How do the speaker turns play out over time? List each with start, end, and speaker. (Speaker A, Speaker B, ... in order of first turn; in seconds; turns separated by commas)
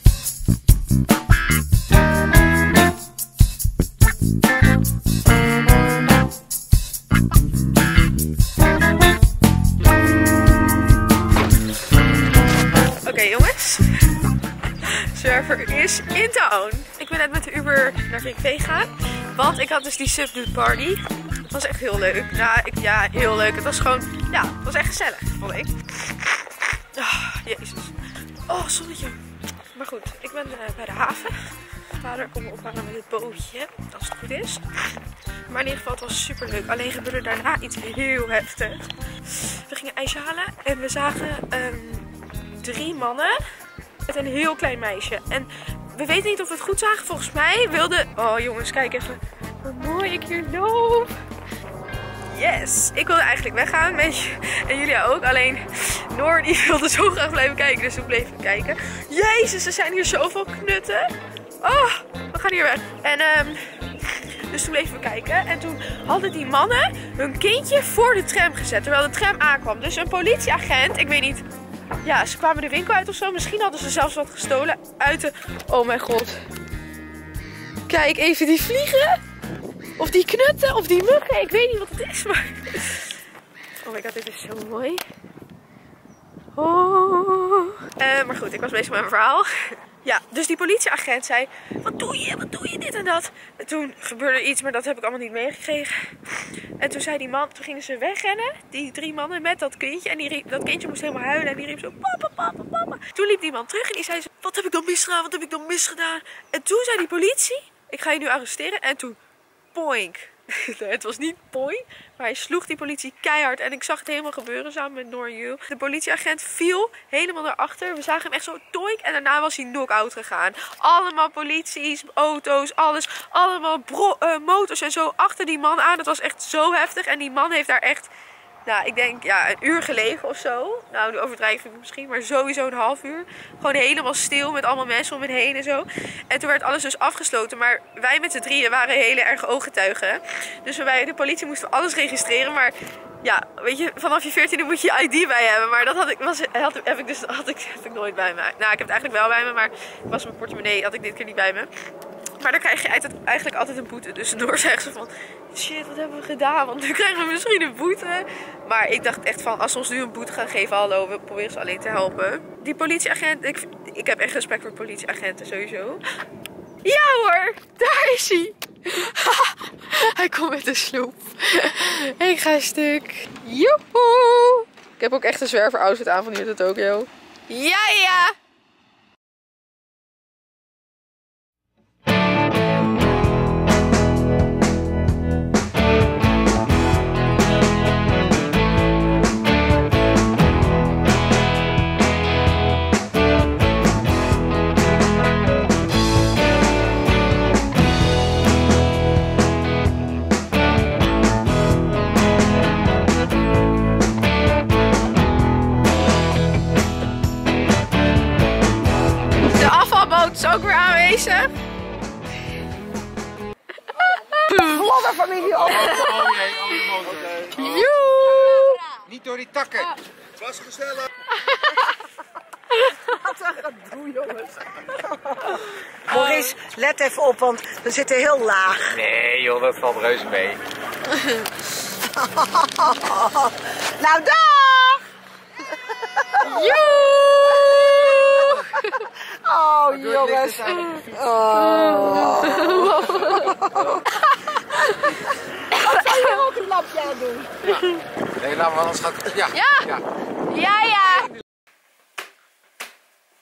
Speaker A: 13.0-14.1, Speaker A: 14.8-25.7, Speaker A: 26.9-27.9, Speaker A: 28.5-29.2, Speaker A: 29.7-34.6, Speaker A: 35.5-43.4, Speaker A: 44.0-51.1, Speaker A: 52.3-71.4, Speaker A: 72.0-76.4, Speaker A: 77.9-79.2, Speaker A: 80.0-83.1, Speaker A: 83.8-85.0, Speaker A: 86.5-109.2, Speaker A: 109.7-128.1, Speaker A: 128.6-151.7, Speaker A: 152.4-166.0, Speaker A: 166.8-178.3, Speaker A: 209.4-211.5, Speaker A: 214.2-214.9, Speaker B: 214.5-216.1, Speaker C: 215.6-217.4, Speaker A: 215.7-219.0, Speaker B: 219.1-219.7, Speaker A: 221.3-221.9, Speaker A: 222.7-223.2, Speaker B: 223.2-225.5, Speaker A: 225.5-226.5, Speaker B: 226.1-229.0, Speaker C: 228.9-230.6, Speaker B: 232.6-235.0, Speaker B: 236.3-236.7, Speaker A: 236.4-239.1, Speaker B: 237.5-238.5, Speaker B: 239.4-244.0, Speaker C: 239.9-240.9, Speaker A: 241.5-246.6, Speaker B: 245.8-247.7, Speaker C: 248.4-250.0, Speaker A: 249.5-251.3